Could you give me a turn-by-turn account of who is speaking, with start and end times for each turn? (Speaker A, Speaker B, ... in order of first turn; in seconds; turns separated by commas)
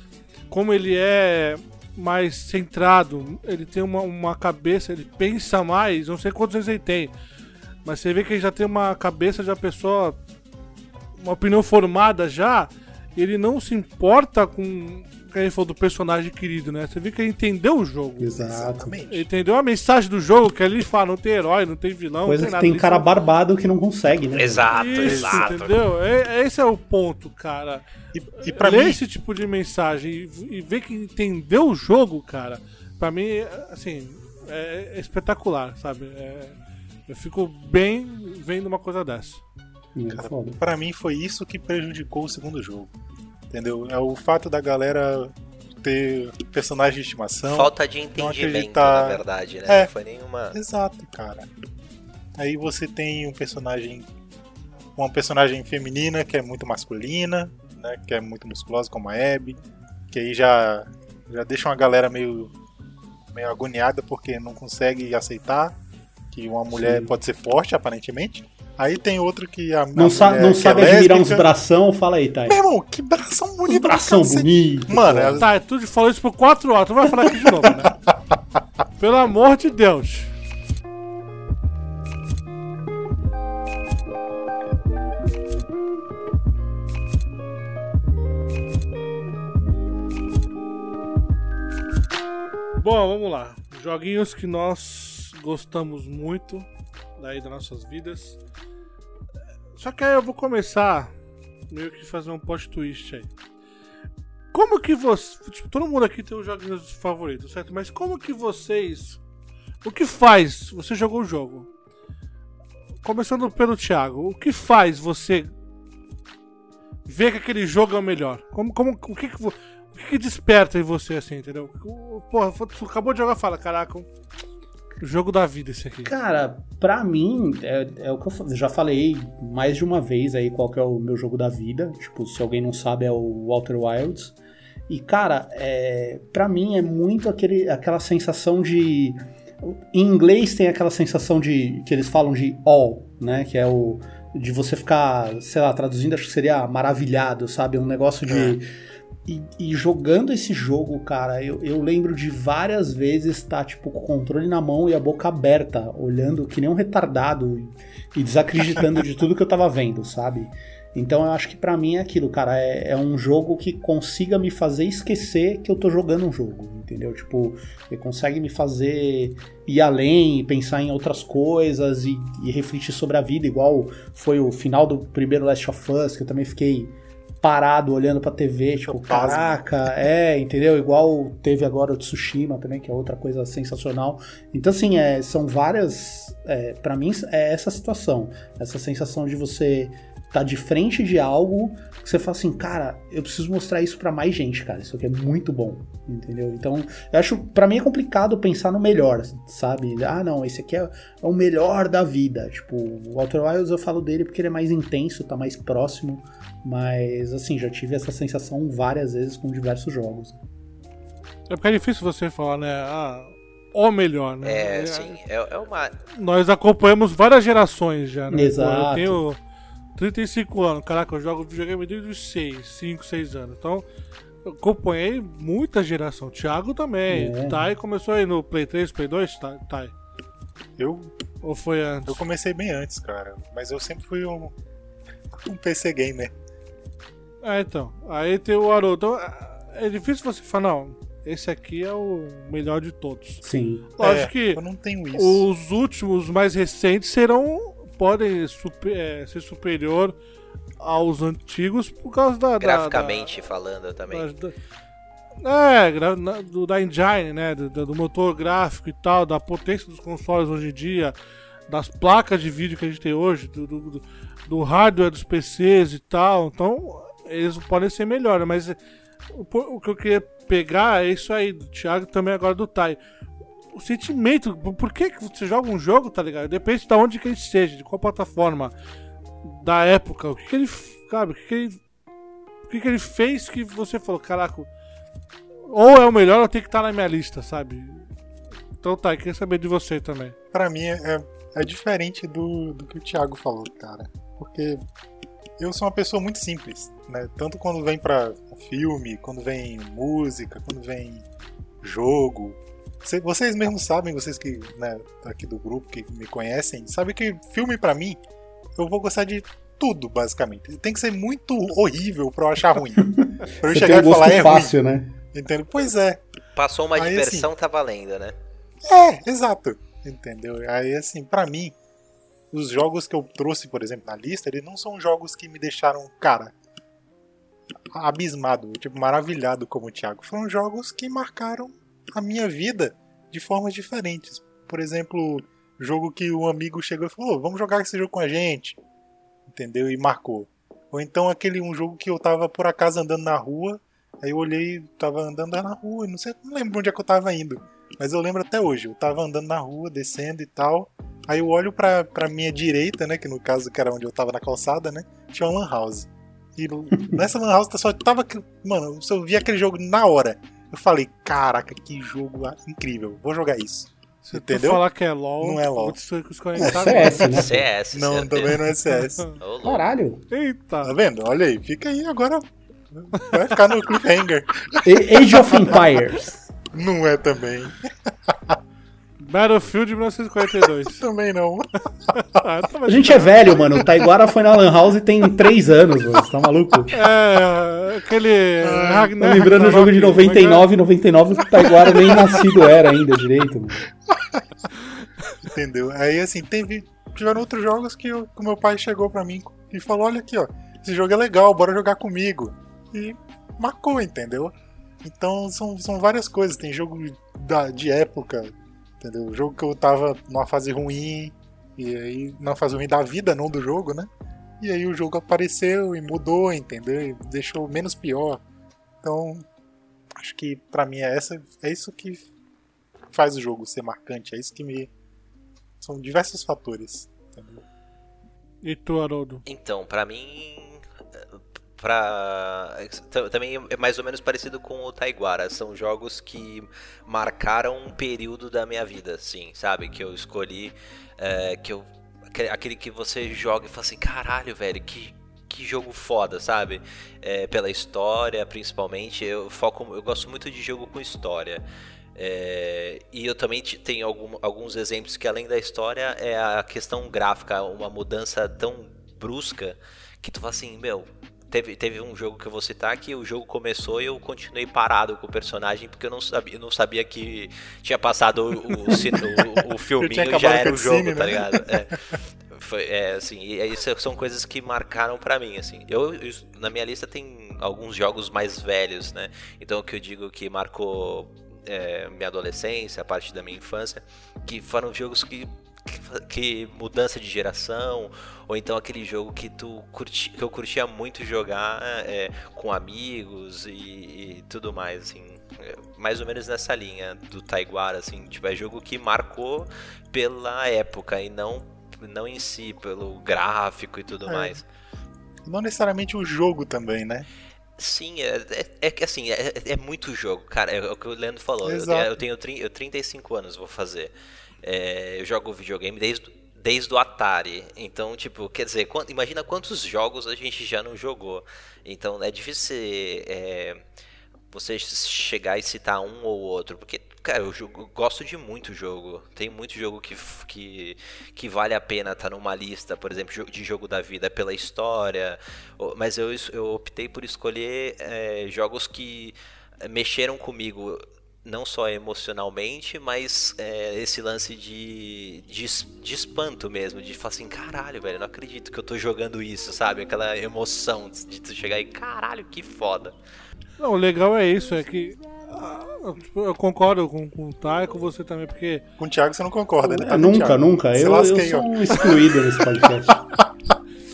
Speaker A: 0.5-7.1, Speaker A: 7.8-10.2, Speaker A: 11.2-18.3, Speaker B: 18.2-19.0, Speaker C: 18.4-19.3, Speaker A: 19.1-23.2, Speaker B: 22.2-24.7, Speaker D: 24.3-25.8, Speaker A: 24.7-27.8, Speaker C: 25.0-25.5, Speaker C: 28.1-29.0, Speaker A: 28.4-36.6, Speaker A: 37.1-39.4, Speaker B: 40.0-40.6, Speaker C: 40.1-42.9, Speaker C: 43.5-49.9, Speaker D: 47.4-50.6, Speaker C: 50.5-51.5, Speaker C: 52.4-54.1, Speaker C: 55.0-62.5, Speaker C: 63.3-65.8, Speaker C: 66.3-71.5, Speaker B: 66.7-67.1, Speaker B: 70.0-72.6, Speaker C: 72.5-75.5, Speaker B: 73.7-75.5, Speaker A: 75.4-77.9, Speaker C: 77.2-78.0, Speaker A: 79.0-80.3, Speaker A: 92.8-96.7, Speaker A: 97.2-98.4, Speaker A: 99.8-101.1, Speaker A: 101.7-103.3, Speaker A: 104.5-109.2, Speaker A: 109.8-111.7, Speaker A: 113.0-115.5, Speaker A: 117.1-124.1, Speaker A: 125.0-126.1, Speaker B: 126.0-134.3, Speaker B: 134.9-148.7, Speaker C: 148.3-148.6, Speaker B: 149.2-210.4, Speaker C: 178.8-179.7, Speaker A: 211.5-215.2, Speaker D: 214.4-216.0, Speaker A: 216.1-219.4, Speaker B: 218.3-219.2, Speaker A: 219.9-223.8, Speaker A: 224.4-229.9, Speaker B: 227.1-227.6, Speaker C: 230.8-231.1, Speaker A: 231.4-232.2, Speaker C: 232.1-234.5, Speaker C: 235.4-236.3, Speaker A: 237.4-243.4, Speaker B: 243.4-243.9, Speaker A: 244.0-244.6, Speaker C: 244.0-245.4, Speaker A: 245.1-250.2, Speaker A: 250.8-253.3, Speaker D: 252.6-254.3, Speaker A: 254.1-254.6, Speaker A: 255.4-261.1, Speaker A: 261.7-268.8, Speaker A: 269.3-273.0, Speaker A: 273.7-278.7, Speaker A: 279.4-281.8, Speaker A: 282.7-284.7, Speaker A: 285.7-288.1, Speaker A: 288.8-290.4, Speaker C: 290.5-294.8, Speaker C: 295.6-301.2, Speaker C: 301.8-308.2, Speaker C: 308.8-313.1, Speaker B: 313.0-315.1, Speaker C: 313.6-314.7, Speaker C: 315.3-316.2, Speaker D: 316.6-318.4, Speaker C: 317.0-317.5, Speaker C: 318.8-321.8, Speaker C: 322.5-326.5, Speaker C: 327.9-338.8, Speaker C: 339.5-364.8, Speaker A: 364.3-367.3, Speaker C: 365.4-366.1, Speaker C: 366.6-369.3, Speaker B: 366.6-367.7, Speaker D: 367.3-368.7, Speaker D: 369.3-369.9, Speaker B: 369.6-370.2, Speaker A: 370.3-370.9, Speaker C: 370.8-375.9, Speaker B: 374.8-376.5, Speaker C: 376.7-378.6, Speaker A: 379.2-381.0, Speaker C: 381.0-381.7, Speaker A: 382.2-383.6, Speaker B: 382.9-386.9, Speaker A: 386.9-390.7, Speaker C: 388.6-389.2, Speaker B: 389.2-393.8, Speaker C: 392.0-392.2, Speaker C: 394.1-394.4, Speaker C: 395.4-418.4, Speaker C: 419.0-419.4, Speaker C: 420.2-422.2, Speaker C: 423.1-424.9, Speaker C: 425.8-427.6, Speaker A: 428.6-429.4, Speaker D: 429.5-451.6, Speaker D: 452.1-504.6, Speaker C: 468.9-469.5, Speaker C: 470.0-471.8, Speaker C: 504.3-504.5, Speaker C: 505.5-507.3, Speaker D: 507.8-514.1, Speaker C: 511.6-512.1, Speaker D: 514.6-523.8, Speaker D: 524.5-553.1, Speaker A: 553.8-558.8, Speaker C: 559.0-562.9, Speaker B: 559.8-563.2